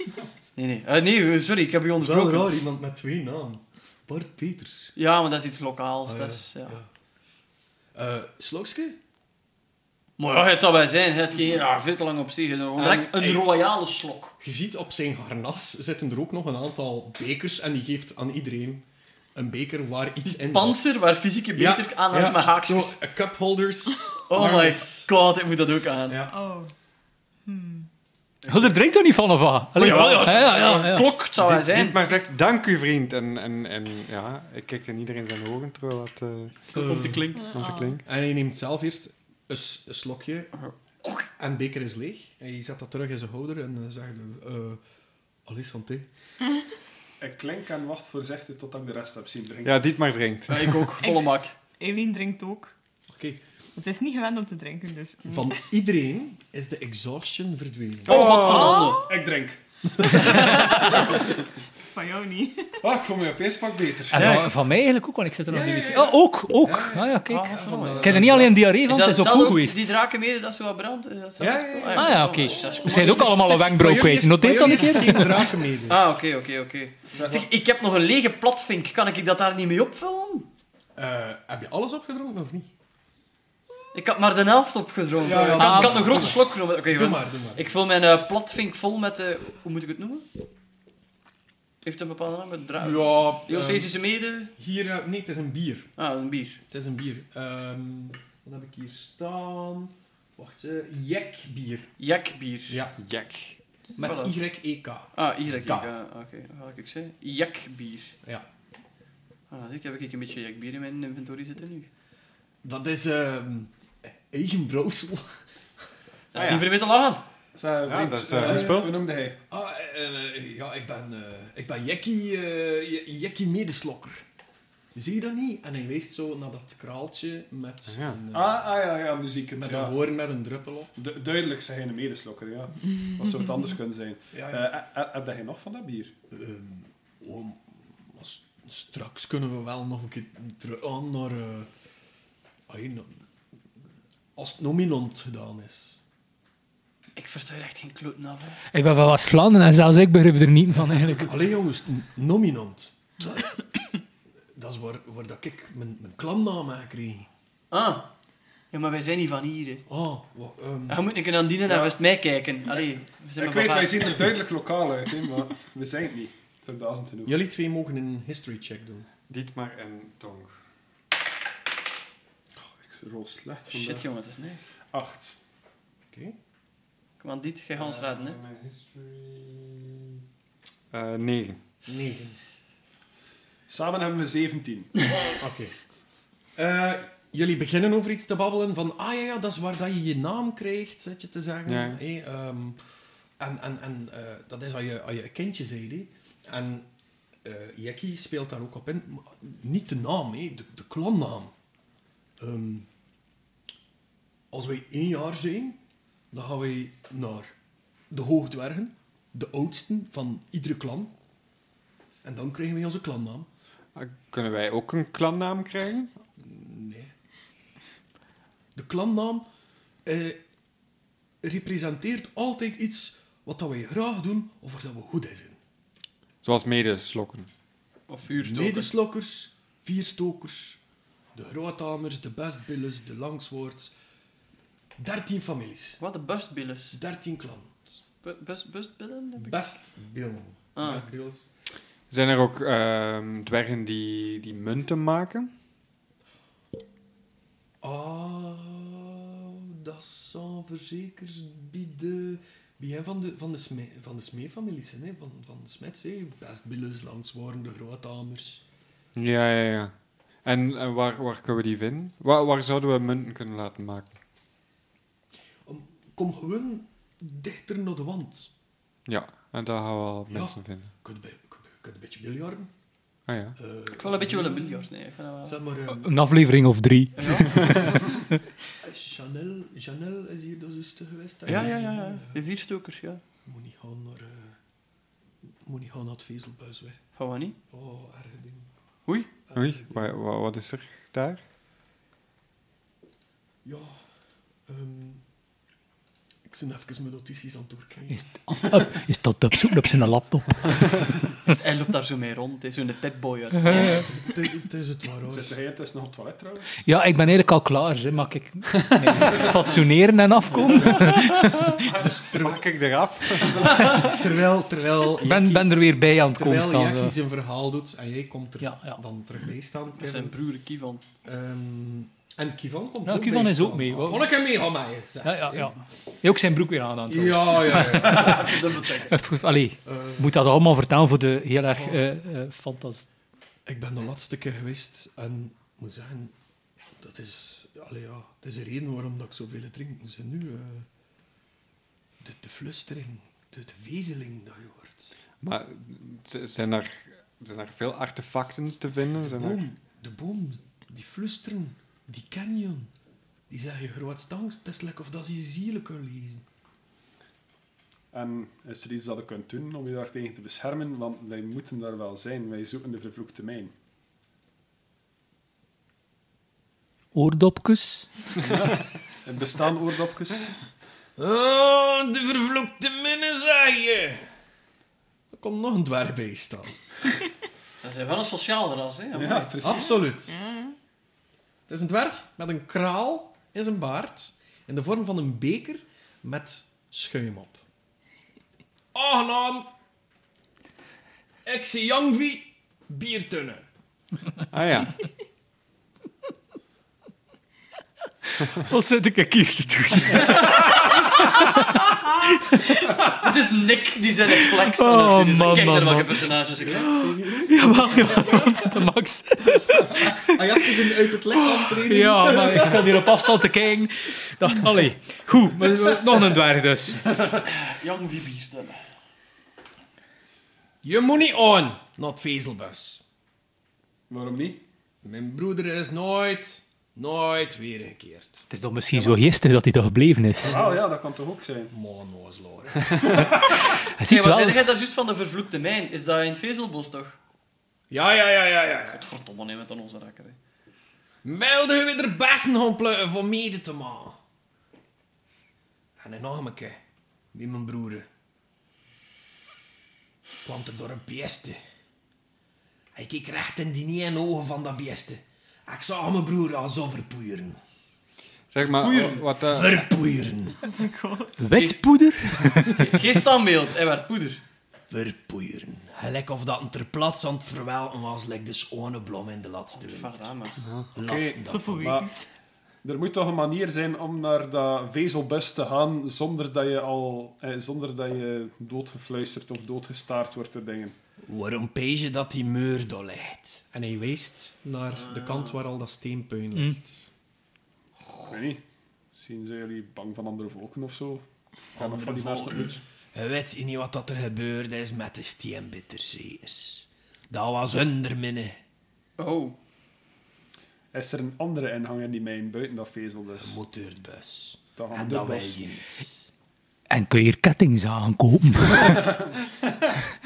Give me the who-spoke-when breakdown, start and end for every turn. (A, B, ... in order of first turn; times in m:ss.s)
0:00.6-0:02.5 A
0:02.0-0:04.9 B
0:05.0-0:06.8 A
0:06.0-0:06.9 B
0:07.9-0:09.0 B
0:10.2-0:14.4 A
0:12.8-0:13.6 B
0:14.4-0:25.1 B
0:20.2-0:23.0 A
0:24.3-0:26.2 A
0:26.1-0:26.4 B
0:26.3-0:26.7 C
0:27.4-0:27.9 C
0:28.4-0:28.7 A
0:28.5-0:31.1 D
0:29.8-0:32.0 A
0:31.4-0:38.0 E
0:36.7-0:37.5 A
0:36.7-0:37.4 B
0:37.4-0:38.0 C
0:38.0-0:40.5 B
0:41.4-0:44.8 B
0:45.4-0:46.1 B
0:47.2-0:49.8 F
0:49.6-0:50.9 E
0:50.5-0:51.5 A
0:51.0-0:52.7 C
0:53.1-0:53.4 B
0:53.7-0:55.5 C
0:55.2-0:58.3 B
0:58.1-0:58.9 E
0:58.1-0:59.0 A
0:58.4-0:59.2 C
0:59.0-1:00.6 F
1:00.1-1:01.0 A
1:01.9-1:02.8 C
1:02.8-1:04.5 F
1:04.1-1:10.0 D
1:05.5-1:08.6 B
1:07.3-1:13.3 A
1:11.4-1:16.0 B
1:11.9-1:15.5 D
1:15.9-1:20.5 A
1:17.1-1:17.5 F
1:21.0-1:22.7 B
1:23.9-1:30.2 A
1:25.2-1:27.8 B
1:25.6-1:26.3 D
1:31.8-1:34.5 A
1:32.8-1:34.0 B
1:34.6-1:35.9 B
1:36.0-1:36.6 A
1:36.7-1:41.9 B
1:42.0-1:42.8 A
1:42.7-1:43.0 B
1:43.0-1:43.6 E
1:44.0-1:45.9 B
1:44.0-1:44.4 A
1:45.1-1:48.1 A
1:49.5-1:51.9 A
1:52.6-1:55.4 B
1:56.3-1:57.2 A
1:56.3-1:56.7 E
1:57.6-1:59.4 F
1:57.8-1:59.0 E
1:58.3-1:58.9 B
1:59.5-2:04.2 B
2:04.9-2:08.6 B
2:07.9-2:08.2 E
2:08.3-2:10.0 F
2:09.6-2:10.9 B
2:11.0-2:16.1 F
2:14.3-2:14.7 B
2:16.3-2:21.7 B
2:22.7-2:23.2 B
2:24.4-2:26.0 B
2:27.2-2:28.6 A
2:28.7-2:31.4 D
2:31.2-2:33.6 B
2:34.5-2:37.3 B
2:37.7-2:38.1 A
2:38.7-2:39.8 A
2:39.9-2:41.0 B
2:40.9-2:44.2 A
2:41.7-2:42.0 F
2:43.4-2:47.4 F
2:47.2-2:49.1 B
2:49.3-2:50.5 E
2:52.8-2:54.1 F
2:53.7-2:54.6 A
2:54.9-2:55.4 F
2:56.1-2:56.4 B
2:57.2-2:58.4 A
2:57.7-3:00.2 E
3:00.9-3:01.6 E
3:01.8-3:02.4 B
3:03.7-3:05.1 F
3:05.4-3:05.7 B
3:06.6-3:12.8 B
3:11.6-3:12.0 E
3:13.4-3:16.9 B
3:17.4-3:21.5 B
3:22.4-3:22.9 B
3:24.5-3:25.8 B
3:26.3-3:27.5 B
3:28.1-3:31.1 B
3:32.2-3:33.5 B
3:33.9-3:36.1 E
3:36.4-3:37.1 B
3:38.7-3:39.4 B
3:40.0-3:40.4 B
3:41.4-3:45.6 B
3:46.4-3:47.5 E
3:48.1-3:48.9 A
3:48.4-3:50.8 B
3:51.3-3:53.9 B
3:55.0-3:56.0 B
3:56.0-3:57.0 A
3:56.9-3:58.0 B
3:58.2-3:59.6 A
3:59.4-4:01.5 B
4:00.7-4:01.1 A
4:02.1-4:05.5 E
4:07.8-4:18.6 B
4:19.1-4:19.9 E
4:20.4-4:24.2 E
4:25.6-4:28.5 B
4:29.1-4:30.9 E
4:30.3-4:32.7 B
4:33.3-4:33.6 E
4:33.6-4:34.9 B
4:33.9-4:35.6 A
4:35.4-4:36.1 B
4:35.9-4:38.0 D
4:37.2-4:37.8 A
4:37.5-4:38.0 B
4:38.8-4:42.4 B
4:41.4-4:43.2 A
4:43.4-4:44.6 B
4:45.6-4:47.0 B
4:47.2-4:47.6 A
4:47.7-4:48.7 B
4:49.5-4:50.1 B
4:49.5-4:51.4 E
4:53.6-4:54.0 B
4:54.7-4:55.2 B
4:56.4-4:58.8 B
4:58.1-5:01.0 D
5:01.4-5:04.1 A
5:03.7-5:05.6 B
5:05.2-5:06.8 F
5:06.8-5:11.8 D
5:11.7-5:13.9 E
5:11.8-5:12.6 B
5:13.5-5:20.4 B
5:15.2-5:17.2 D
5:18.6-5:19.0 D
5:20.0-5:21.0 A
5:21.2-5:25.7 B
5:23.0-5:24.3 D
5:25.2-5:28.5 D
5:27.1-5:28.9 B
5:28.0-5:29.2 A
5:29.1-5:33.1 D
5:29.8-5:30.4 B
5:31.7-5:32.0 B
5:33.6-5:36.3 B
5:37.0-5:40.9 B
5:42.2-5:45.1 B
5:45.4-5:49.6 E
5:49.2-5:52.9 B
5:53.5-5:56.4 B
5:58.1-6:03.7 F
6:07.1-6:08.1 D
6:08.4-6:10.6 F
6:11.2-6:14.2 B
6:15.3-6:16.8 B
6:17.8-6:19.5 A
6:19.1-6:19.9 F
6:19.6-6:20.3 B
6:20.3-6:20.7 C
6:21.7-6:27.6 B
6:28.9-6:29.7 B
6:31.4-6:33.6 B
6:34.5-6:35.0 E
6:38.6-6:43.1 D
6:43.2-6:46.9 A
6:44.6-6:50.7 D
6:46.6-6:48.8 B
6:50.1-6:53.3 B
6:51.3-6:57.2 D
6:57.4-6:58.8 A
7:00.8-7:03.0 B
7:04.1-7:04.6 F
7:05.0-7:08.4 B
7:08.5-7:10.6 D
7:10.4-7:11.7 F
7:11.7-7:13.2 B
7:13.8-7:14.6 D
7:14.0-7:17.2 A
7:17.9-7:19.1 B
7:18.8-7:20.4 A
7:21.2-7:24.2 B
7:26.0-7:26.8 B
7:27.3-7:28.1 B
7:30.4-7:31.6 B
7:32.9-7:37.6 B
7:38.5-7:39.8 E
7:38.8-7:39.2 A
7:39.5-7:40.6 B
7:40.6-7:41.4 C
7:41.4-7:43.0 D
7:41.5-7:41.8 A
7:42.4-7:44.4 A
7:44.9-7:50.2 B
7:49.7-7:50.5 A
7:50.6-7:50.9 E
7:50.9-7:52.0 B
7:51.0-7:52.1 F
7:51.4-7:52.2 C
7:52.8-8:01.0 F
8:01.2-8:07.0 B
8:04.9-8:05.6 A
8:08.2-8:08.6 F
8:09.1-8:11.2 F
8:11.8-8:12.8 F
8:11.8-8:18.6 B
8:19.2-8:19.6 A
8:20.9-8:23.6 F
8:23.4-8:26.3 B
8:24.8-8:25.6 F
8:26.9-8:29.2 D